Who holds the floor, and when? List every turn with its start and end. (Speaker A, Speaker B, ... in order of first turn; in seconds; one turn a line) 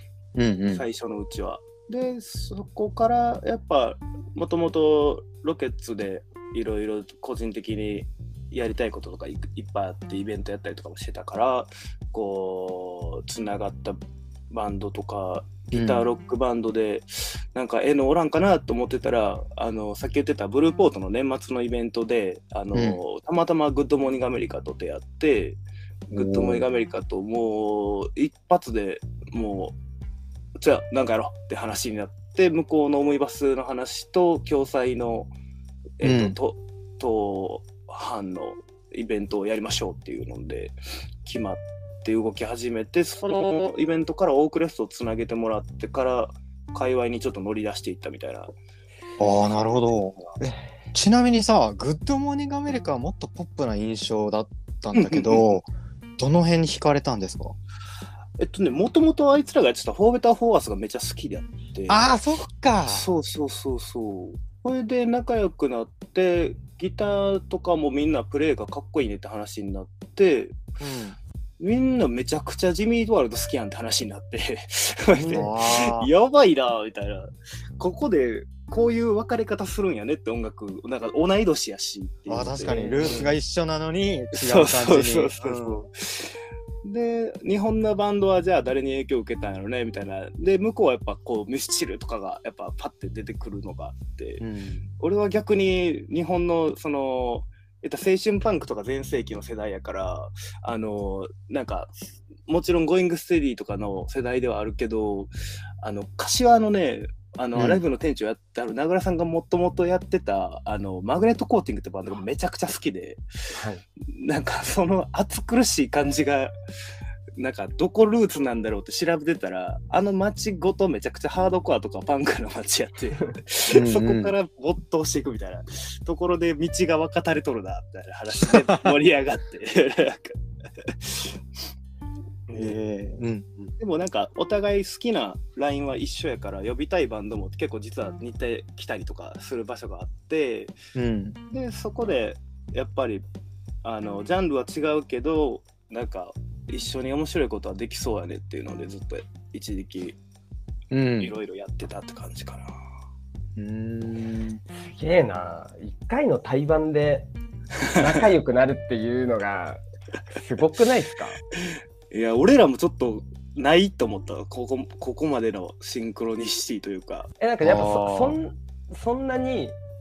Speaker A: 0.3-0.8
Speaker B: 0.7-14.0
Speaker B: 14.5-25.6
Speaker A: 15.7-16.0
Speaker A: 22.7-23.0
Speaker A: 26.1-26.6
Speaker B: 26.1-29.8
Speaker B: 30.6-35.3
Speaker B: 36.0-48.5
Speaker A: 36.0-36.4
Speaker A: 49.2-57.5
Speaker B: 54.9-55.6
Speaker B: 58.4-62.1
Speaker A: 61.9-63.1
Speaker B: 62.9-70.6
Speaker A: 70.8-71.2
Speaker B: 71.6-83.3
Speaker C: 75.2-75.5
Speaker A: 75.3-76.1
Speaker A: 82.3-85.8
Speaker C: 82.6-83.3
Speaker B: 84.3-94.5
Speaker A: 94.4-94.8
Speaker B: 95.0-101.9
Speaker B: 102.5-113.2
Speaker A: 107.5-107.8
Speaker C: 113.5-113.8
Speaker B: 114.1-116.5
Speaker B: 117.4-131.4
Speaker A: 123.7-124.3
Speaker A: 128.5-128.9
Speaker B: 132.5-132.8
Speaker A: 132.5-133.7
Speaker B: 133.8-140.7
Speaker A: 140.9-141.4
Speaker B: 141.5-143.2
Speaker B: 143.8-150.2
Speaker A: 150.9-151.3
Speaker B: 151.2-152.7
Speaker A: 153.6-154.6
Speaker C: 154.7-157.3
Speaker B: 157.8-158.2
Speaker C: 157.9-161.4
Speaker B: 161.6-167.3
Speaker C: 167.4-169.8
Speaker A: 167.6-168.4